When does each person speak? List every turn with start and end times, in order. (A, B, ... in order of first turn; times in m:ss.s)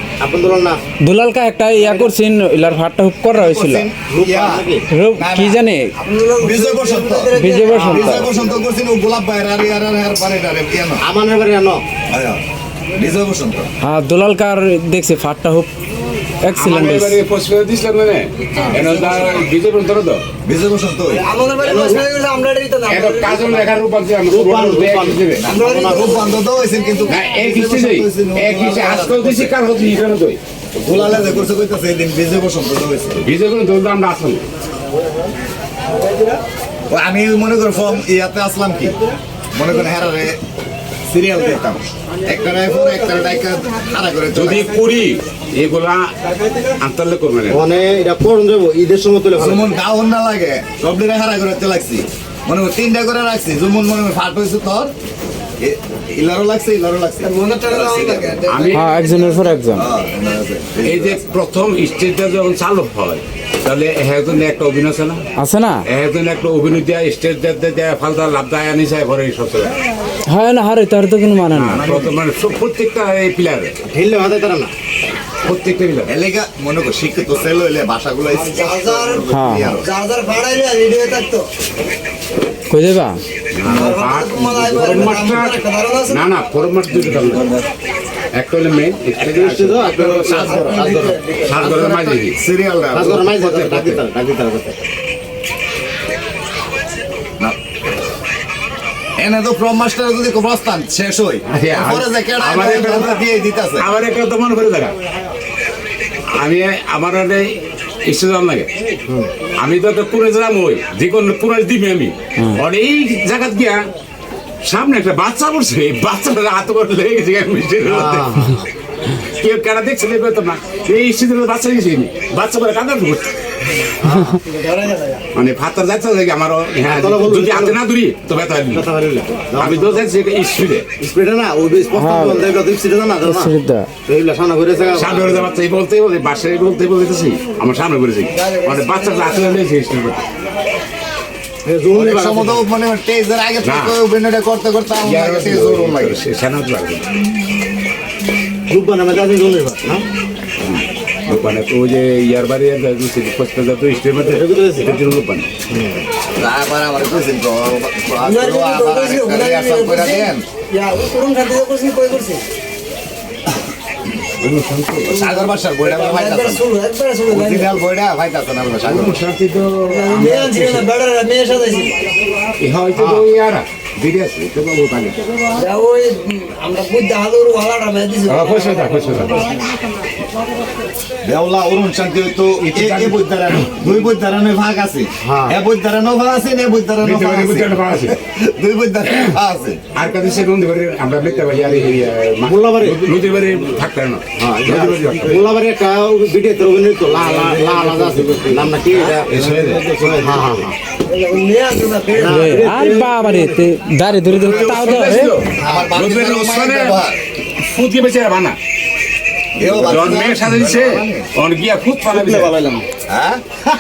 0:00.2-0:00.8 A
0:01.1-0:03.9 B
0:01.8-0:02.1 A
0:03.3-0:05.6 C
0:04.1-0:04.9 A
0:04.9-0:05.9 B
0:06.0-0:07.9 D
0:06.4-0:11.0 C
0:07.3-0:08.3 B
0:07.8-0:08.4 A
0:11.0-0:11.8 A
0:12.1-0:12.4 C
0:13.0-0:13.7 C
0:13.8-0:15.7 B
0:16.4-0:17.2 B
0:16.5-0:20.2 E
0:18.7-0:19.4 C
0:20.4-0:21.2 C
0:21.2-0:23.7 D
0:21.6-0:22.0 A
0:22.9-0:25.4 E
0:24.2-0:26.1 A
0:25.4-0:26.3 D
0:25.4-0:29.5 C
0:27.1-0:30.4 E
0:30.8-0:33.2 C
0:33.2-0:34.4 E
0:36.9-0:39.0 C
0:39.5-0:40.4 C
0:41.1-0:44.7 C
0:44.3-0:46.1 E
0:46.7-0:47.7 E
0:47.5-0:49.7 A
0:49.4-0:54.9 C
0:55.6-0:58.7 C
0:57.2-0:59.6 D
0:58.5-0:59.0 E
0:58.7-0:59.8 B
0:59.7-1:01.4 C
1:00.8-1:05.2 E
1:05.4-1:05.8 B
1:05.8-1:09.8 E
1:10.3-1:11.8 B
1:11.5-1:13.7 E
1:11.8-1:12.1 C
1:13.9-1:14.7 A
1:15.4-1:16.1 E
1:16.0-1:19.9 C
1:18.4-1:21.5 D
1:19.3-1:19.7 B
1:22.7-1:23.2 B
1:23.5-1:27.4 E
1:23.7-1:26.2 D
1:28.3-1:29.9 E
1:29.2-1:31.2 A
1:30.0-1:30.6 C
1:30.3-1:31.5 D
1:31.4-1:32.4 E
1:31.5-1:33.3 C
1:32.9-1:34.8 A
1:33.1-1:34.0 E
1:39.2-1:43.9 C
1:41.5-1:43.2 E
1:43.8-1:44.9 E
1:46.3-1:48.7 E
1:49.6-1:53.8 E
1:54.6-1:58.6 E
1:57.8-1:58.6 A
1:59.1-2:03.3 E
2:04.0-2:04.4 A
2:04.4-2:05.2 D
2:05.3-2:08.9 E
2:06.9-2:07.8 A
2:08.7-2:10.0 A
2:09.6-2:10.9 E
2:11.0-2:13.5 A
2:11.9-2:12.5 B
2:13.2-2:13.9 B
2:14.0-2:15.5 A
2:14.9-2:20.2 E
2:18.3-2:19.6 D
2:21.6-2:22.6 A
2:21.9-2:26.2 C
2:23.6-2:24.0 E
2:25.0-2:27.2 E
2:28.7-2:30.0 A
2:30.6-2:35.5 E
2:34.2-2:34.9 A
2:35.7-2:36.1 A
2:36.4-2:40.4 C
2:38.2-2:42.4 D
2:44.4-2:45.2 E
2:45.1-2:47.7 D
2:45.1-2:46.6 C
2:47.3-2:49.2 C
2:48.9-2:50.8 E
2:49.8-2:51.9 D
2:52.6-2:55.2 E
2:55.5-2:59.0 D
2:58.3-2:59.4 E
3:01.2-3:09.8 C
3:02.7-3:03.7 E
3:05.2-3:05.6 A
3:07.0-3:08.1 E
3:09.9-3:15.5 E
3:12.4-3:13.1 A
3:14.4-3:20.7 A
3:17.1-3:20.7 E
3:21.1-3:22.7 D
3:22.1-3:23.6 A
3:22.2-3:25.4 B
3:24.2-3:27.2 C
3:24.4-3:27.0 E
3:27.6-3:28.6 E
3:29.6-3:31.3 C
3:29.6-3:32.5 E
3:33.1-3:33.4 C